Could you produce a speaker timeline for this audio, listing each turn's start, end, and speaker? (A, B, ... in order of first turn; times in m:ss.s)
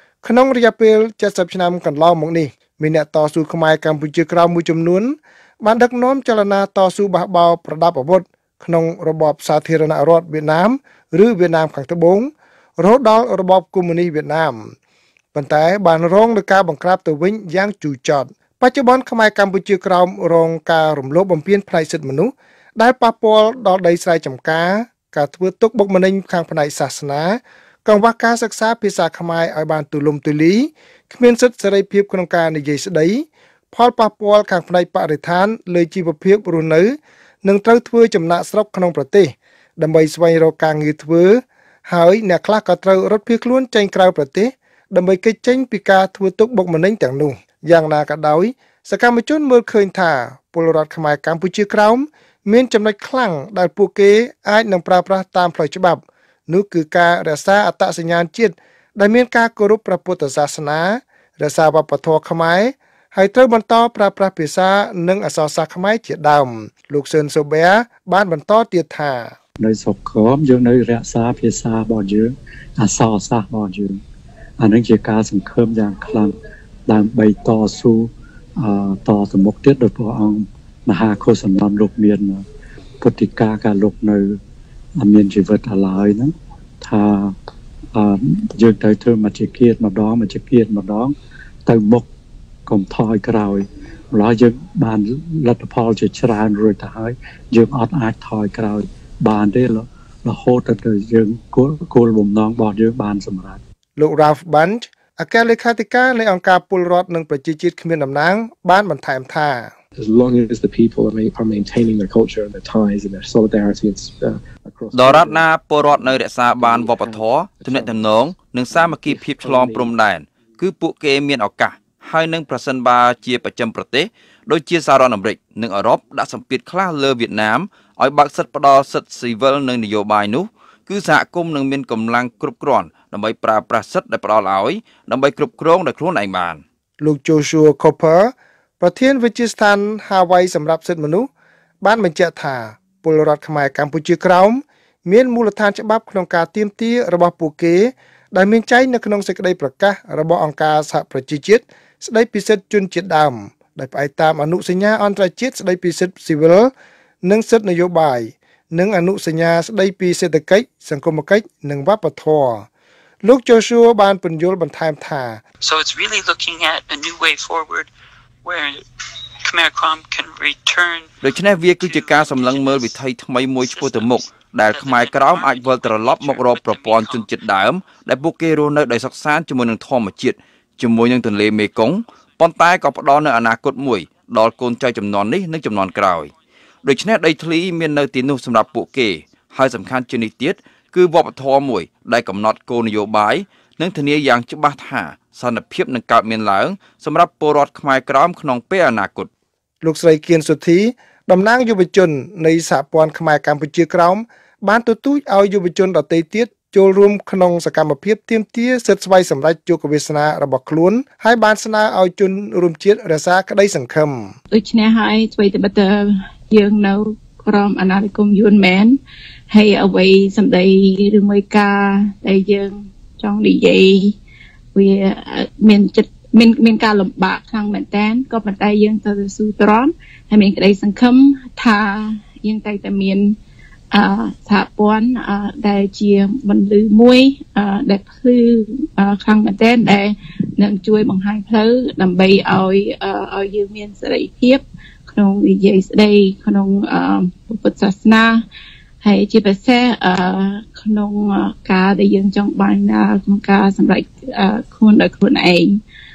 0:00.2-0:14.7 A
0:15.3-1:09.4 A
1:09.6-1:14.0 B
1:14.6-1:16.3 B
1:16.9-1:22.4 B
1:23.0-1:24.4 B
1:25.0-1:27.4 B
1:28.0-1:31.1 B
1:31.7-1:32.1 B
1:32.7-1:43.6 B
1:44.0-1:49.7 A
1:50.0-1:59.9 C
1:54.9-2:16.6 D
2:17.0-2:21.3 A
2:21.8-2:36.7 A
2:37.2-2:42.7 A
2:43.2-2:45.4 A
2:45.6-2:47.9 E
2:48.4-2:48.8 E
2:49.5-2:51.1 E
2:51.2-3:06.3 D
2:51.8-2:53.0 E
2:53.6-2:57.3 E
3:06.8-3:19.3 D
3:19.8-3:34.3 A
3:34.5-3:39.0 F
3:39.5-3:44.2 F
3:44.8-3:53.4 F
3:53.9-4:08.4 F
4:09.0-4:15.8 F